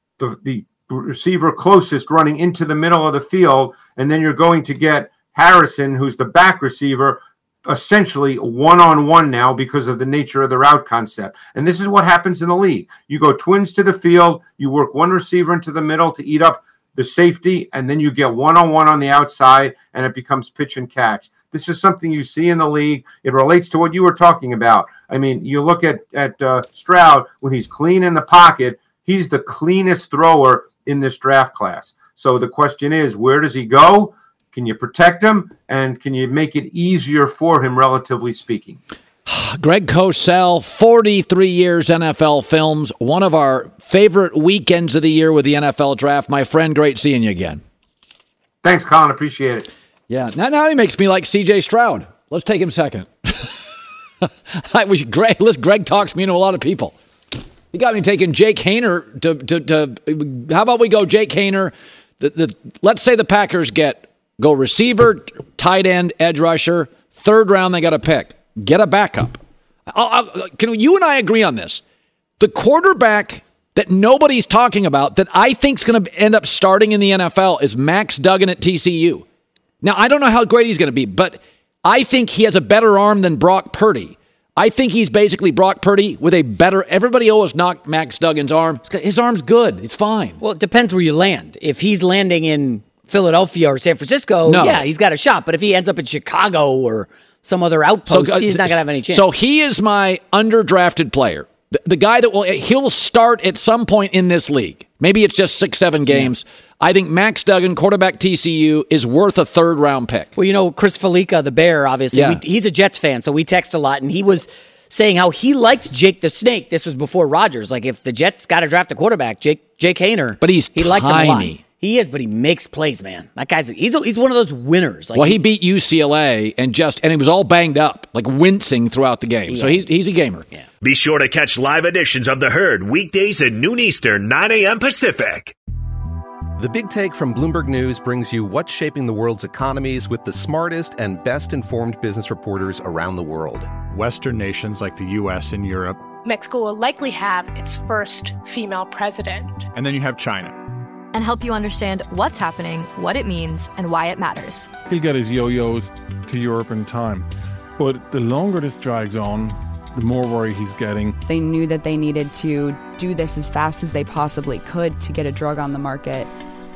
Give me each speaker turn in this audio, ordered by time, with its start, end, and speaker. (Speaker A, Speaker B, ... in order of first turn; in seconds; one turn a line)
Speaker A: 0.2-38.8
Speaker B: 39.2-47.6
Speaker A: 48.6-49.7
Speaker B: 50.1-53.6
Speaker B: 54.2-56.9
Speaker B: 57.7-71.8
Speaker B: 72.4-79.2
Speaker B: 79.8-90.4
Speaker C: 90.4-99.3
Speaker B: 94.5-94.8
Speaker B: 98.1-110.3
Speaker C: 110.3-125.4
Speaker B: 112.1-112.4
Speaker B: 120.4-121.6
Speaker B: 125.1-130.5
Speaker C: 129.5-129.8
Speaker D: 130.8-135.5
Speaker E: 136.6-143.8
Speaker F: 143.8-146.1
Speaker G: 146.2-149.7
Speaker F: 149.7-150.6
Speaker H: 151.1-154.7
Speaker I: 154.9-157.2
Speaker I: 157.8-161.2
Speaker J: 161.2-166.3